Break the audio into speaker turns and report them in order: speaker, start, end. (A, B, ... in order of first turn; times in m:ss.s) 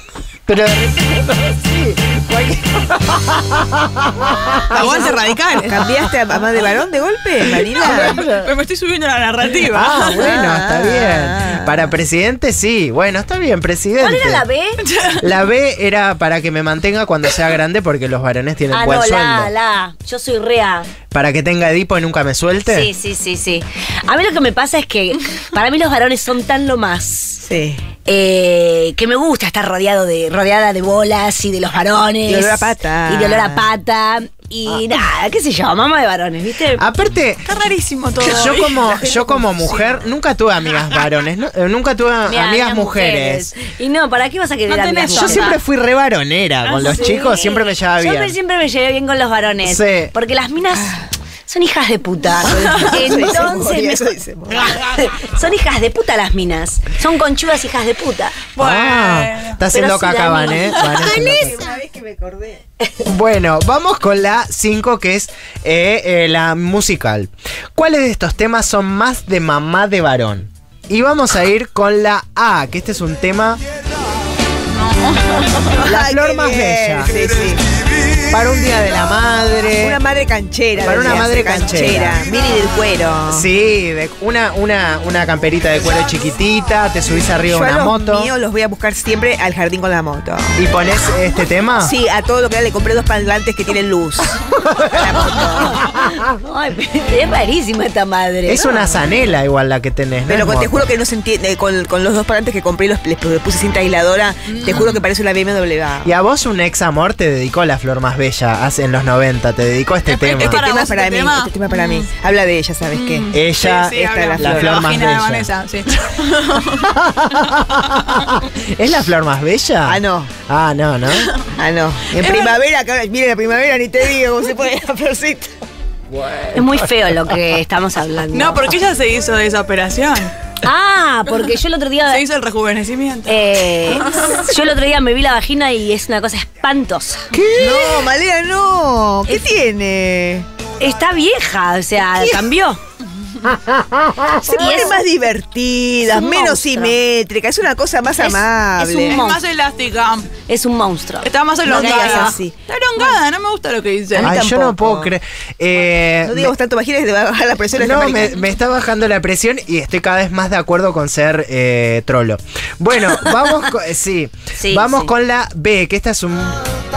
0:00.5-0:05.2 A
0:04.7-0:05.8 B
0:05.6-0:08.2 C
0:07.8-0:10.2 B
0:07.8-0:08.5 A
0:09.7-0:14.4 A
0:10.2-0:11.9 C
0:14.0-0:14.7 D
0:14.8-0:15.2 B
0:15.2-0:19.5 A
0:18.7-0:20.9 D
0:21.1-0:22.9 A
0:22.7-0:27.4 D
0:27.4-0:27.8 C
0:28.0-0:36.8 D
0:32.2-0:33.6 C
0:36.8-0:37.4 A
0:37.4-0:39.2 B
0:38.2-0:43.5 A
0:39.0-0:39.9 D
0:42.3-0:45.5 D
0:44.7-0:45.6 B
0:45.1-0:48.3 A
0:46.7-0:47.0 B
0:46.8-0:50.9 D
0:49.6-0:50.1 A
0:50.7-0:51.1 C
0:51.5-0:54.1 D
0:52.5-0:54.7 C
0:54.9-0:58.5 D
0:58.6-0:59.5 B
0:58.6-1:01.6 A
0:59.7-1:01.5 D
1:00.9-1:02.6 C
1:03.1-1:13.6 A
1:14.8-1:15.7 B
1:15.8-1:17.2 A
1:15.8-1:17.6 C
1:18.3-1:20.0 A
1:19.8-1:23.4 C
1:20.8-1:22.2 A
1:23.3-1:28.3 A
1:27.5-1:30.5 C
1:30.6-1:31.9 A
1:31.8-1:35.8 C
1:36.2-1:39.0 D
1:38.5-1:40.9 A
1:40.3-1:46.1 C
1:44.5-1:45.0 B
1:46.0-1:50.6 A
1:50.1-1:52.1 B
1:50.4-1:53.3 C
1:52.9-1:56.9 B
1:53.3-1:55.5 A
1:53.9-1:54.9 C
1:56.8-2:01.3 A
1:59.8-2:00.3 C
2:01.6-2:05.5 C
2:02.2-2:02.5 B
2:06.1-2:06.8 A
2:06.5-2:08.6 D
2:08.3-2:10.3 B
2:10.6-2:12.2 D
2:12.1-2:13.4 B
2:13.3-2:17.3 D
2:14.1-2:14.4 B
2:17.3-2:17.7 A
2:17.5-2:20.4 C
2:20.8-2:22.8 D
2:23.7-2:24.2 A
2:24.5-2:29.2 C
2:24.5-2:25.0 D
2:26.1-2:26.9 D
2:28.2-2:29.4 D
2:29.0-2:30.3 B
2:30.5-2:32.4 D
2:31.2-2:34.4 B
2:31.6-2:32.5 C
2:34.1-2:35.1 C
2:34.2-2:36.5 A
2:36.2-2:38.4 C
2:37.8-2:46.6 A
2:44.6-2:45.1 D